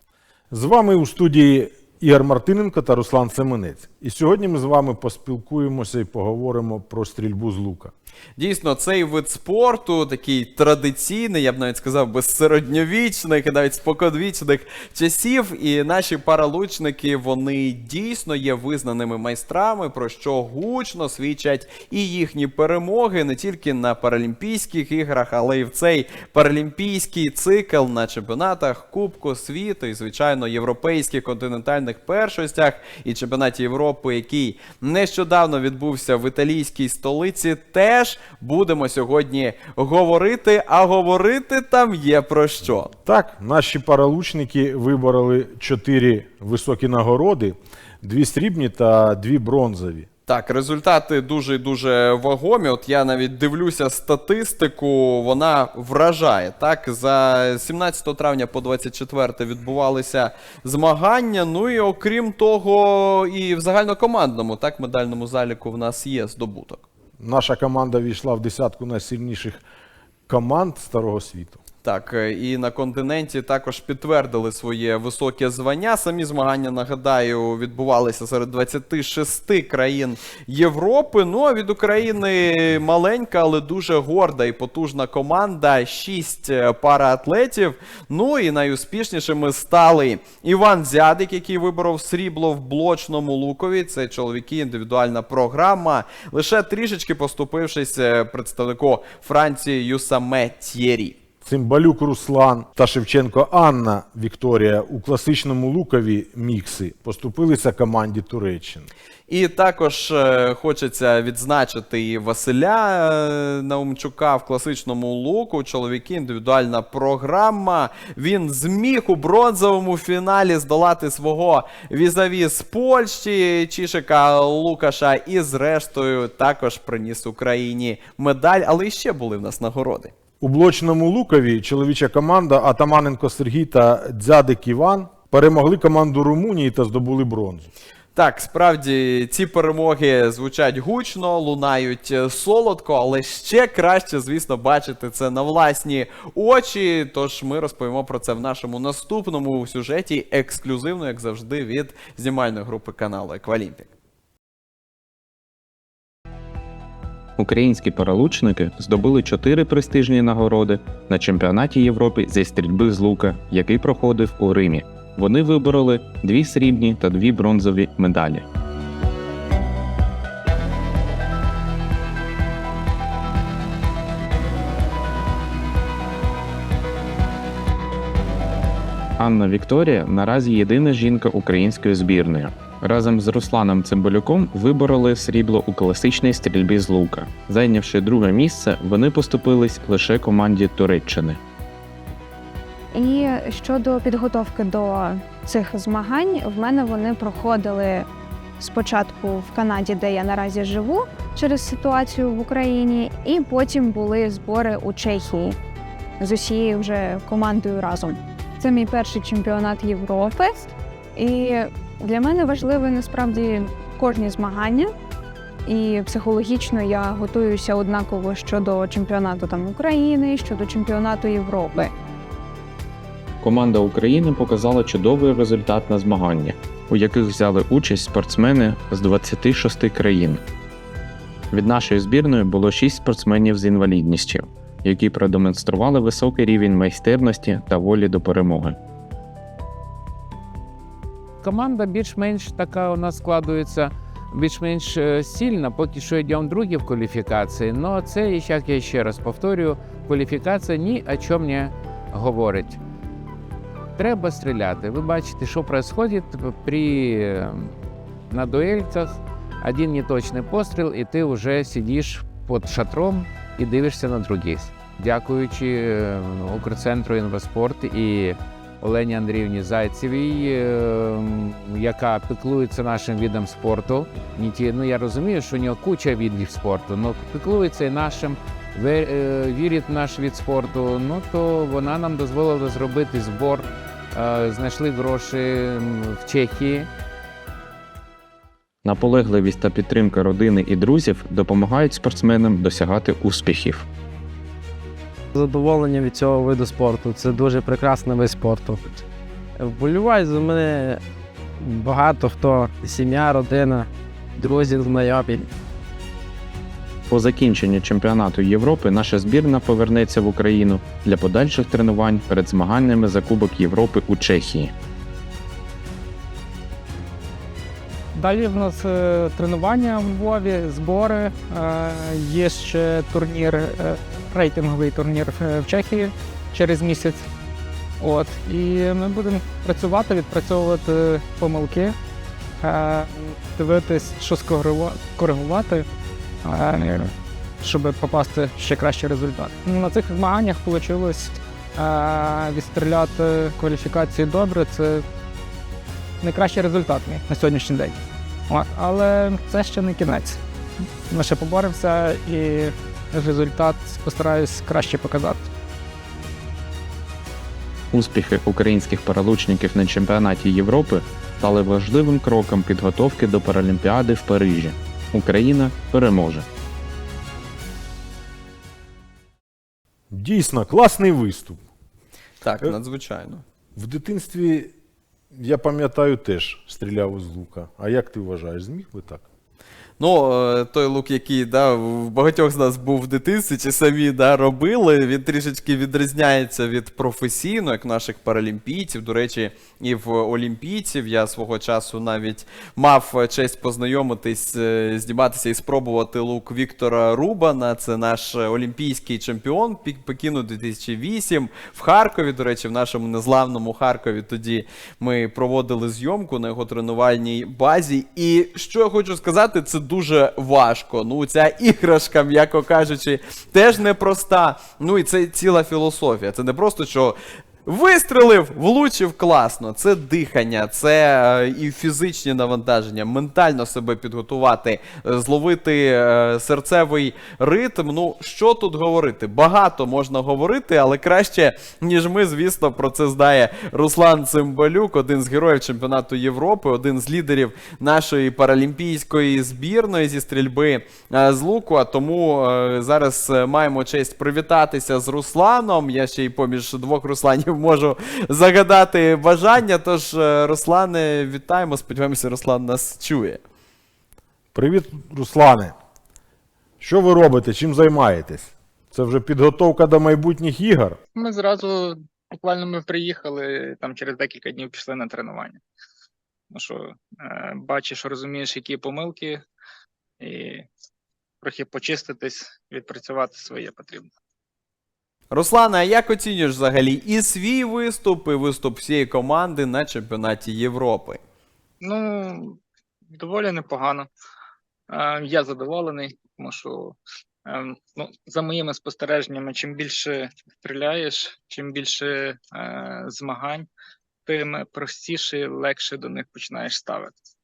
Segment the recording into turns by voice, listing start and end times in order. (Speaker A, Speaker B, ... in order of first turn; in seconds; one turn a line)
Speaker A: 0.5-7.9
Speaker B: 8.4-42.9
Speaker A: 43.0-50.1
Speaker B: 50.3-66.8
Speaker A: 67.2-69.6
Speaker A: 70.3-71.6
Speaker B: 71.8-101.2
Speaker A: 101.4-108.9
Speaker B: 109.3-130.1
Speaker A: 130.4-137.7
Speaker B: 138.2-153.9
Speaker C: 157.4-168.5
Speaker C: 179.2-191.4
Speaker D: 192.9-198.1
Speaker D: 198.6-205.6
Speaker D: 206.2-214.9
Speaker D: 215.7-221.9
Speaker C: 223.4-230.4
Speaker C: 231.5-238.8
Speaker E: 241.4-252.8
Speaker E: 254.0-257.7
Speaker E: 258.3-286.9
Speaker C: 288.8-293.9
Speaker F: 295.3-299.0
Speaker F: 299.6-301.0
Speaker F: 301.6-305.5
Speaker C: 307.1-314.7
Speaker G: 318.1-327.2
Speaker G: 328.0-332.0
Speaker G: 332.6-335.9
Speaker G: 336.4-345.0
Speaker G: 346.2-347.9
Speaker G: 348.5-350.4
Speaker G: 351.1-355.5
Speaker C: 357.9-366.5
Speaker A: 370.1-371.6
Speaker B: 372.4-373.4
Speaker A: 373.8-374.7
Speaker A: 375.3-379.2
Speaker B: 380.0-453.4
Speaker A: 454.6-455.7
Speaker A: 456.8-461.0
Speaker H: 461.1-465.6
Speaker H: 466.5-469.4
Speaker H: 470.2-470.7
Speaker H: 471.4-474.1
Speaker B: 475.3-481.2
Speaker H: 481.8-482.6
Speaker H: 483.1-484.1
Speaker H: 484.9-493.7
Speaker H: 494.3-497.1